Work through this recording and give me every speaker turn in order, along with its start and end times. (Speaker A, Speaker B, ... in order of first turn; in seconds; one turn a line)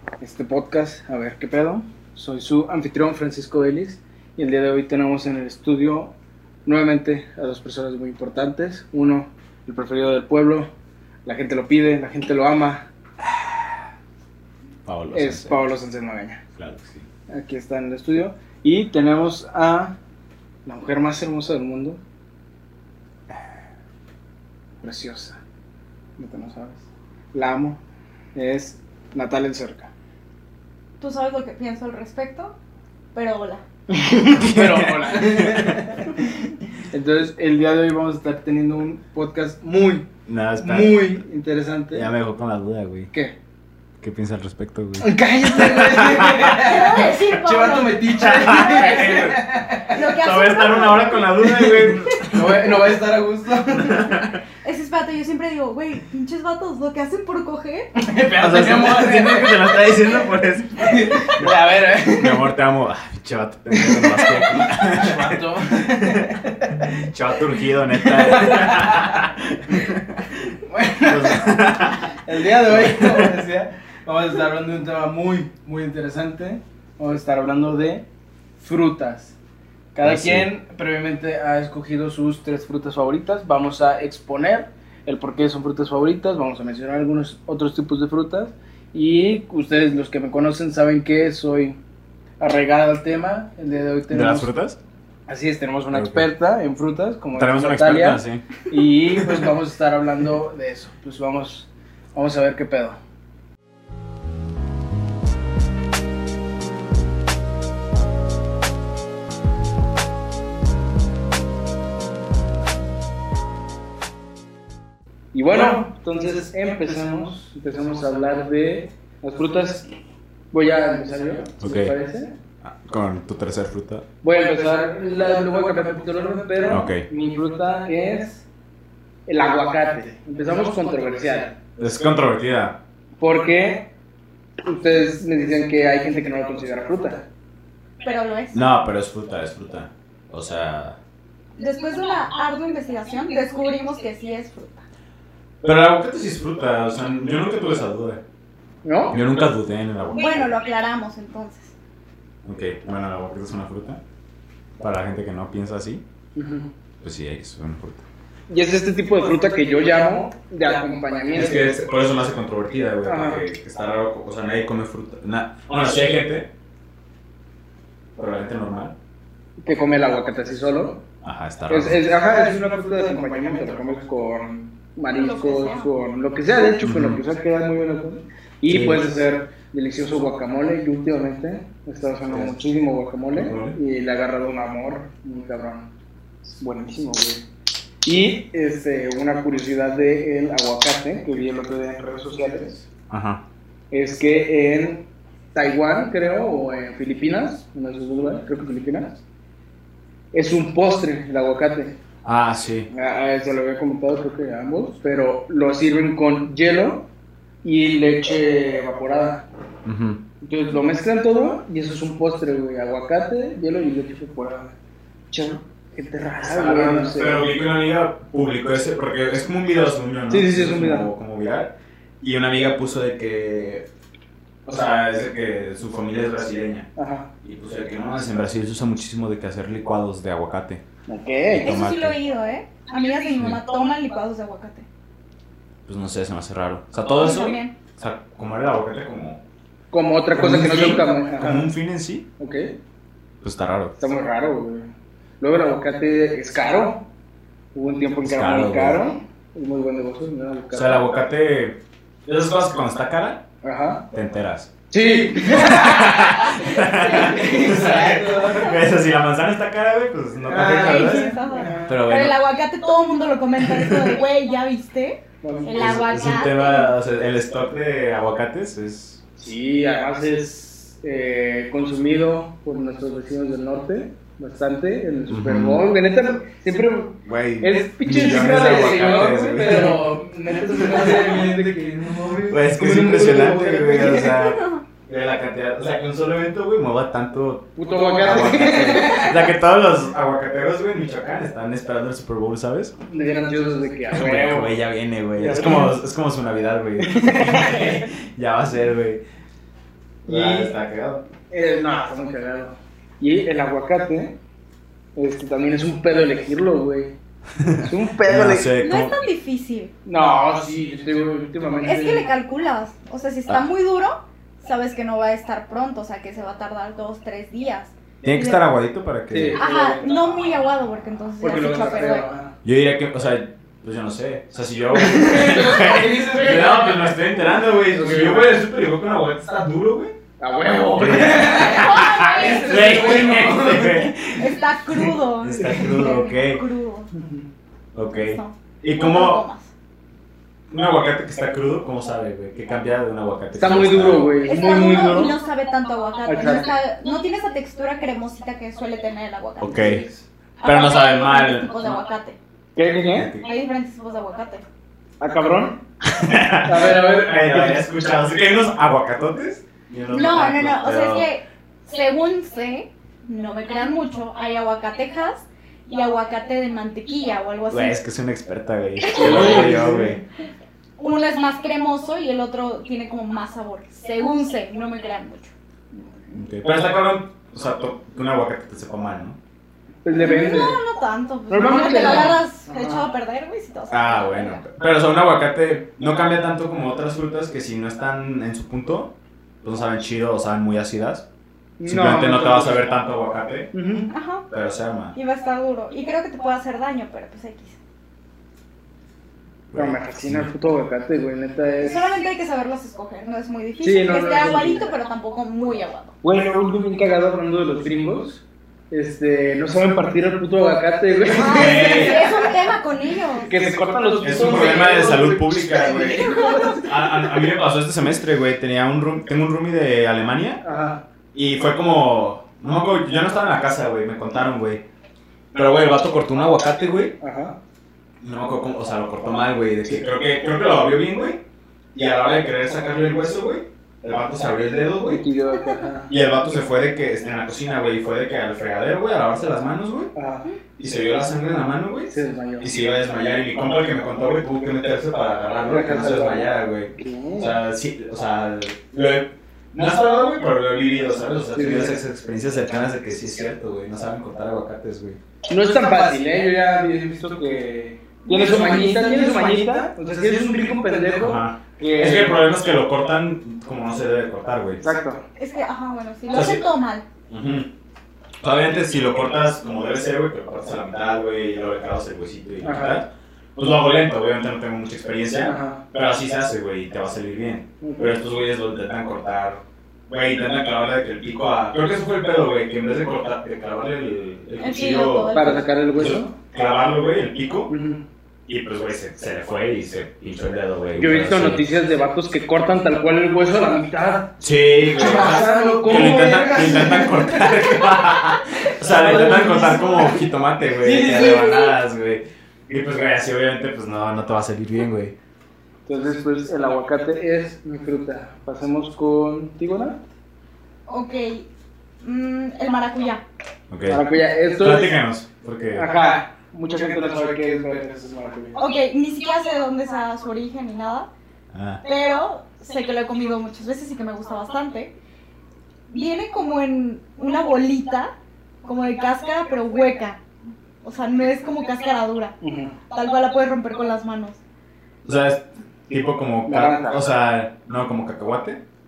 Speaker A: 0.2-6.1
Speaker A: 6.7-10.7
Speaker A: 11.2-12.9
Speaker B: 14.9-15.7
Speaker A: 15.1-16.4
Speaker B: 16.6-17.1
Speaker A: 17.3-20.0
Speaker A: 20.7-22.0
Speaker A: 24.8-25.4
Speaker A: 26.2-27.8
Speaker A: 28.4-29.9
Speaker C: 31.0-32.5
Speaker C: 33.1-33.6
Speaker A: 33.9-36.3
Speaker B: 34.3-35.9
Speaker A: 36.9-42.1
Speaker B: 40.3-41.2
Speaker B: 41.9-43.1
Speaker B: 44.0-46.6
Speaker A: 45.0-50.0
Speaker C: 46.5-51.7
Speaker B: 48.2-52.8
Speaker A: 51.4-54.2
Speaker B: 53.7-54.4
Speaker C: 54.6-57.9
Speaker A: 58.0-59.9
Speaker B: 58.4-61.5
Speaker A: 60.8-62.5
Speaker B: 62.1-65.4
Speaker A: 63.7-66.9
Speaker B: 66.0-70.4
Speaker A: 67.9-69.3
Speaker A: 70.7-78.0
Speaker B: 71.1-73.3
Speaker A: 78.6-79.3
Speaker A: 79.9-91.8
Speaker B: 80.0-80.5
Speaker A: 92.4-94.5
Speaker B: 94.1-94.8
Speaker A: 95.3-103.0
Speaker B: 95.9-96.3
Speaker B: 97.4-98.5
Speaker B: 99.2-99.5
Speaker A: 115.3-119.8
Speaker A: 120.5-122.3
Speaker B: 121.6-121.9
Speaker B: 122.6-124.0
Speaker A: 124.2-128.4
Speaker B: 126.7-127.1
Speaker A: 129.3-131.6
Speaker B: 131.8-132.8
Speaker A: 133.2-133.9
Speaker A: 134.6-137.2
Speaker C: 138.0-138.6
Speaker B: 138.5-141.0
Speaker C: 141.6-144.8
Speaker B: 145.6-148.2
Speaker A: 148.8-149.2
Speaker B: 149.1-150.5
Speaker C: 150.2-151.7
Speaker B: 152.4-154.0
Speaker B: 154.8-156.0
Speaker A: 156.4-156.7
Speaker B: 157.0-158.1
Speaker A: 158.5-161.8
Speaker B: 161.3-166.5
Speaker A: 163.1-163.4
Speaker B: 168.2-168.9
Speaker A: 169.6-171.0
Speaker B: 171.2-172.0
Speaker A: 171.7-185.9
Speaker C: 175.1-175.9
Speaker B: 176.8-177.2
Speaker B: 178.7-179.1
Speaker B: 182.3-182.6
Speaker B: 183.3-183.8
Speaker A: 186.5-187.5
Speaker A: 188.1-192.8
Speaker B: 193.1-193.4
Speaker A: 193.9-199.2
Speaker A: 200.3-202.0
Speaker B: 202.2-202.9
Speaker A: 202.9-207.1
Speaker A: 207.6-209.5
Speaker B: 209.8-210.2
Speaker A: 210.4-214.7
Speaker A: 215.3-217.5
Speaker B: 216.4-223.9
Speaker A: 220.3-221.1
Speaker B: 224.7-226.9
Speaker A: 227.0-227.3
Speaker B: 227.4-230.8
Speaker A: 231.1-231.8
Speaker B: 231.5-232.2
Speaker C: 231.6-234.8
Speaker B: 235.9-239.4
Speaker C: 237.1-237.7
Speaker A: 239.9-241.7
Speaker B: 240.3-242.3
Speaker A: 242.4-242.8
Speaker B: 243.4-244.0
Speaker A: 244.0-247.1
Speaker A: 247.7-251.1
Speaker B: 248.2-249.1
Speaker B: 250.7-253.4
Speaker A: 253.6-254.1
Speaker B: 254.1-254.7
Speaker A: 254.9-258.8
Speaker B: 255.5-262.4
Speaker A: 260.5-262.0
Speaker C: 260.5-266.9
Speaker A: 265.4-265.8
Speaker B: 265.7-269.2
Speaker A: 269.4-284.4
Speaker B: 275.3-275.9
Speaker B: 277.2-280.2
Speaker B: 280.8-281.1
Speaker B: 282.5-292.9
Speaker C: 284.1-284.8
Speaker A: 287.8-289.5
Speaker A: 293.1-294.8
Speaker B: 294.1-299.2
Speaker A: 295.4-296.0
Speaker A: 297.0-298.0
Speaker A: 300.3-300.7
Speaker B: 300.3-301.3
Speaker A: 301.5-304.4
Speaker A: 305.2-307.2
Speaker B: 307.6-309.3
Speaker A: 307.8-308.7
Speaker C: 308.8-309.9
Speaker A: 310.1-312.3
Speaker C: 311.9-318.6
Speaker B: 318.2-319.6
Speaker A: 319.3-320.3
Speaker C: 319.6-322.3
Speaker A: 321.4-322.5
Speaker B: 322.6-330.2
Speaker A: 324.9-328.6
Speaker A: 330.4-334.1
Speaker B: 331.0-336.6
Speaker C: 331.5-333.3
Speaker C: 334.3-337.1
Speaker A: 337.1-337.4
Speaker B: 337.9-339.4
Speaker C: 338.1-339.7
Speaker B: 340.7-344.4
Speaker A: 343.6-345.3
Speaker C: 344.5-350.1
Speaker A: 346.3-346.7
Speaker B: 349.6-350.1
Speaker A: 349.8-350.2
Speaker C: 350.6-352.4
Speaker B: 350.6-351.8
Speaker A: 352.8-353.3
Speaker B: 353.1-353.5
Speaker C: 353.4-354.6
Speaker A: 355.2-355.8
Speaker B: 356.1-361.3
Speaker A: 356.6-357.9
Speaker C: 360.1-368.0
Speaker B: 367.7-370.2
Speaker C: 369.0-369.8
Speaker A: 369.1-370.2
Speaker C: 371.0-375.5
Speaker B: 376.3-379.4
Speaker A: 380.1-380.8
Speaker C: 380.1-384.6
Speaker A: 381.5-383.0
Speaker B: 383.9-391.3
Speaker A: 391.8-392.9
Speaker B: 391.9-393.7
Speaker A: 393.7-394.1
Speaker C: 394.1-394.5
Speaker B: 394.5-395.2
Speaker C: 395.1-397.8
Speaker B: 399.7-400.5
Speaker A: 399.7-402.0
Speaker C: 401.8-406.1
Speaker A: 403.8-404.9
Speaker A: 406.2-412.4
Speaker C: 411.4-413.5
Speaker B: 411.5-412.3
Speaker A: 413.5-417.6
Speaker B: 414.2-420.6
Speaker A: 420.6-421.0
Speaker B: 421.3-424.8
Speaker B: 425.5-427.2
Speaker A: 427.2-427.6
Speaker B: 428.2-431.4
Speaker B: 431.9-435.2
Speaker A: 435.0-436.1
Speaker C: 435.6-435.9
Speaker B: 436.1-440.1
Speaker A: 440.1-440.5
Speaker B: 440.8-455.2
Speaker A: 442.1-442.7
Speaker A: 445.7-447.6
Speaker A: 451.6-452.0
Speaker A: 455.5-462.5
Speaker C: 458.3-459.4
Speaker B: 461.2-464.9
Speaker A: 464.8-465.2
Speaker C: 465.4-467.0
Speaker B: 466.3-466.6
Speaker B: 467.3-467.7
Speaker B: 468.4-485.4
Speaker A: 472.6-473.0
Speaker A: 475.4-475.8
Speaker A: 477.8-478.2
Speaker C: 484.6-485.8
Speaker A: 485.3-486.3
Speaker B: 486.0-487.7
Speaker A: 487.7-488.0
Speaker B: 488.5-491.7
Speaker A: 491.0-497.6
Speaker B: 494.4-505.1
Speaker A: 498.8-501.8
Speaker A: 505.9-510.0
Speaker C: 510.9-511.5
Speaker C: 512.0-513.2
Speaker B: 513.7-514.1
Speaker A: 513.9-515.0
Speaker B: 514.6-515.9
Speaker A: 515.7-518.6
Speaker C: 518.6-521.1
Speaker B: 521.5-521.8
Speaker C: 521.9-524.9
Speaker C: 525.9-528.1
Speaker C: 528.6-530.2
Speaker C: 530.8-532.4
Speaker A: 532.4-532.8
Speaker C: 532.9-534.4
Speaker B: 535.0-538.6
Speaker A: 536.5-537.1